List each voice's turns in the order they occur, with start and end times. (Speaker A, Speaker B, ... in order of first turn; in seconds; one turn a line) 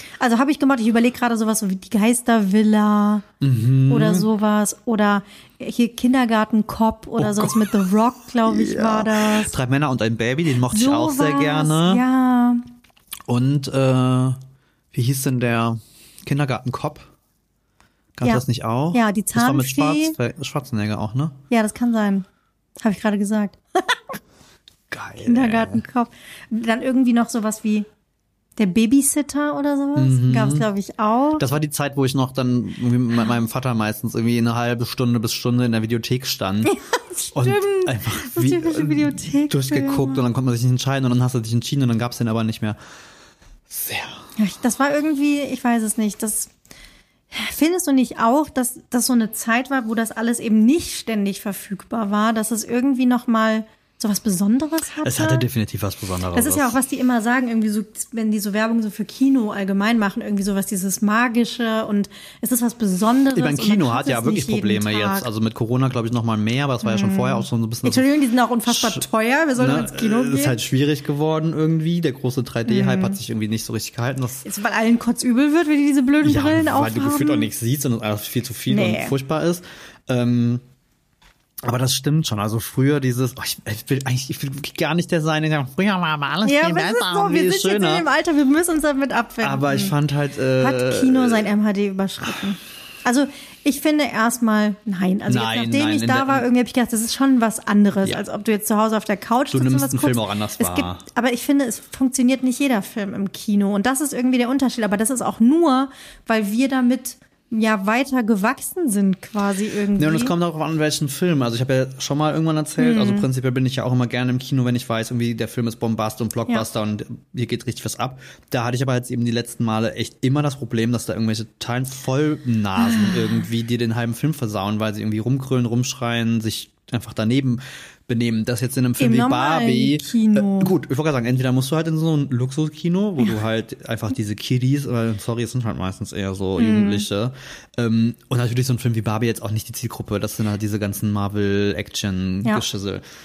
Speaker A: 0.2-3.2
Speaker B: 3.4-4.3
Speaker A: 3.9-9.5
Speaker B: 7.2-7.9
Speaker B: 8.4-12.0
Speaker A: 10.7-12.6
Speaker B: 13.3-14.4
Speaker B: 14.9-17.1
Speaker B: 18.2-21.4
Speaker A: 18.2-20.2
Speaker A: 21.5-22.2
Speaker A: 22.8-24.2
Speaker B: 24.9-25.8
Speaker A: 25.2-27.9
Speaker A: 28.6-31.4
Speaker B: 29.9-30.7
Speaker B: 31.4-36.7
Speaker A: 36.6-40.2
Speaker B: 37.3-42.8
Speaker B: 43.7-44.2
Speaker A: 44.4-46.5
Speaker A: 47.3-55.5
Speaker B: 55.0-56.8
Speaker A: 56.3-65.3
Speaker B: 63.3-68.1
Speaker A: 66.8-70.5
Speaker B: 68.7-69.0
Speaker B: 69.6-74.4
Speaker A: 72.7-73.2
Speaker A: 74.4-77.5
Speaker B: 76.2-80.6
Speaker A: 78.7-79.1
Speaker B: 81.6-88.0
Speaker A: 86.4-89.9
Speaker B: 89.4-91.5
Speaker A: 90.6-110.3
Speaker B: 95.3-96.5
Speaker B: 99.5-101.0
Speaker B: 110.0-143.0
Speaker A: 112.8-113.3
Speaker A: 122.8-123.5
Speaker A: 129.0-130.7
Speaker A: 136.6-137.1